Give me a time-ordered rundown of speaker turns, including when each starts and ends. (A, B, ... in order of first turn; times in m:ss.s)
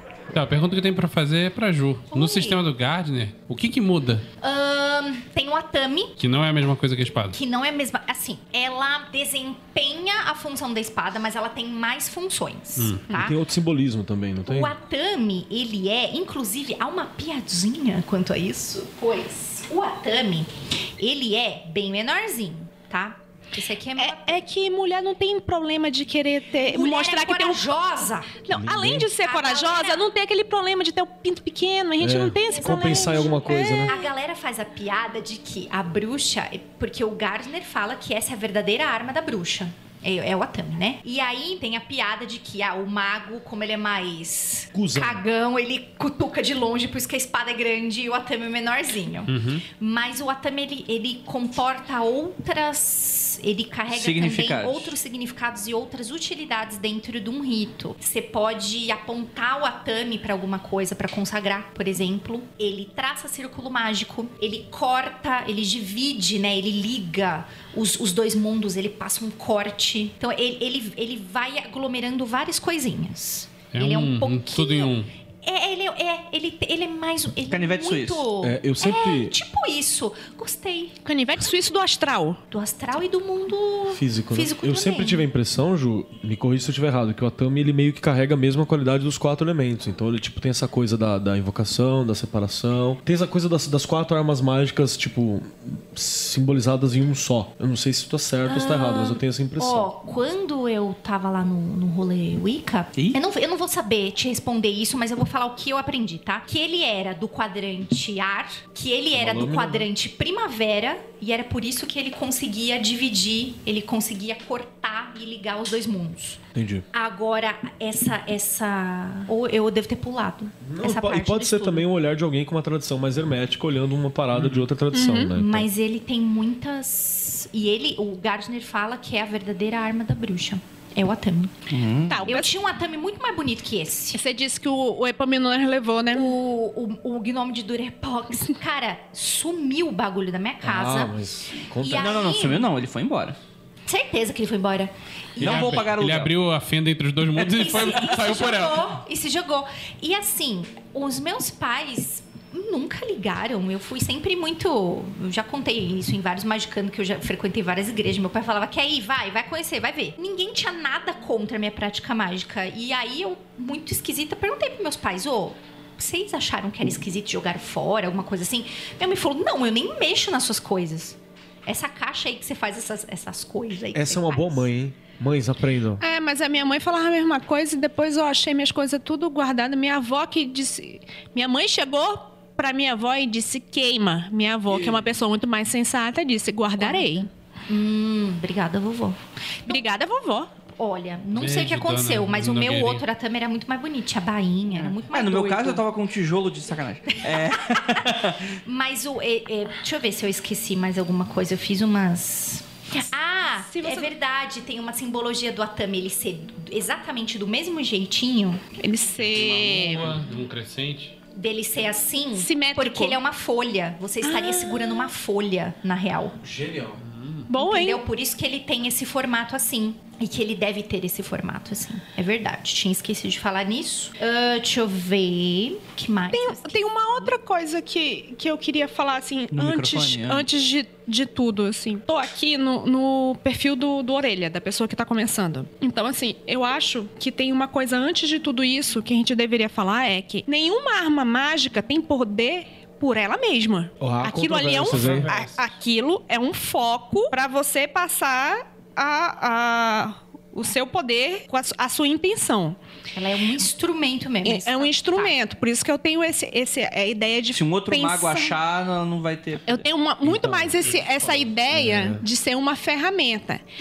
0:00.3-0:04.2 A
0:02.1-0:02.6 B
0:04.4-0:06.2 B
0:06.2-0:07.4 A
0:07.3-0:13.4 B
0:12.8-0:13.0 A
0:13.1-0:14.7 C
0:14.5-0:24.4 B
0:24.0-0:27.6 D
0:26.6-0:28.4 B
0:28.5-0:34.1 D
0:28.5-0:29.1 C
0:29.2-0:30.0 B
0:32.0-0:34.0 C
0:32.4-1:14.9 B
0:44.7-0:45.2 C
0:49.3-0:49.6 A
0:53.9-0:55.0 E
1:13.7-1:15.1 A
1:15.4-1:21.5 B
1:17.5-1:18.3 E
1:18.4-1:19.4 C
1:21.0-1:22.4 D
1:22.5-1:25.3 B
1:23.9-1:39.9 C
1:38.5-1:56.4 B
1:49.1-1:49.9 C
1:56.5-1:56.8 C
1:56.9-2:01.9 B
2:00.6-2:05.7 C
2:04.3-2:04.7 A
2:04.9-2:05.3 D
2:05.3-2:11.6 B
2:11.7-2:12.2 E
2:12.1-2:12.5 D
2:12.2-2:14.2 B
2:14.1-2:16.4 D
2:16.1-2:21.2 B
2:20.6-2:22.3 C
2:21.8-2:22.7 B
2:22.0-2:23.4 E
2:23.9-2:25.8 B
2:25.4-2:29.0 A
2:25.4-2:26.3 E
2:27.4-2:27.7 E
2:27.5-2:54.7 B
2:53.9-2:56.0 C
2:56.0-3:07.3 D
3:06.8-3:09.8 B
3:09.7-3:10.5 D
3:10.8-3:15.8 B
3:11.4-3:13.0 A
3:14.8-3:18.5 E
3:18.6-3:28.6 B
3:23.6-3:24.1 D
3:28.8-3:30.2 D
3:29.2-3:31.2 A
3:31.3-3:36.4 B
3:32.4-3:33.2 D
3:34.2-3:35.1 D
3:36.4-3:37.0 C
3:37.0-3:37.5 A
3:37.5-3:38.0 D
3:37.6-3:47.3 B
3:46.3-4:12.8 D
3:49.5-3:50.5 E
4:04.0-4:05.3 C
4:04.8-4:05.7 A
4:13.1-4:15.4 B
4:14.4-4:18.6 D
4:17.5-4:19.8 E
4:19.7-4:23.6 D
4:20.3-4:20.8 C
4:20.8-4:21.5 A
4:21.7-4:22.2 C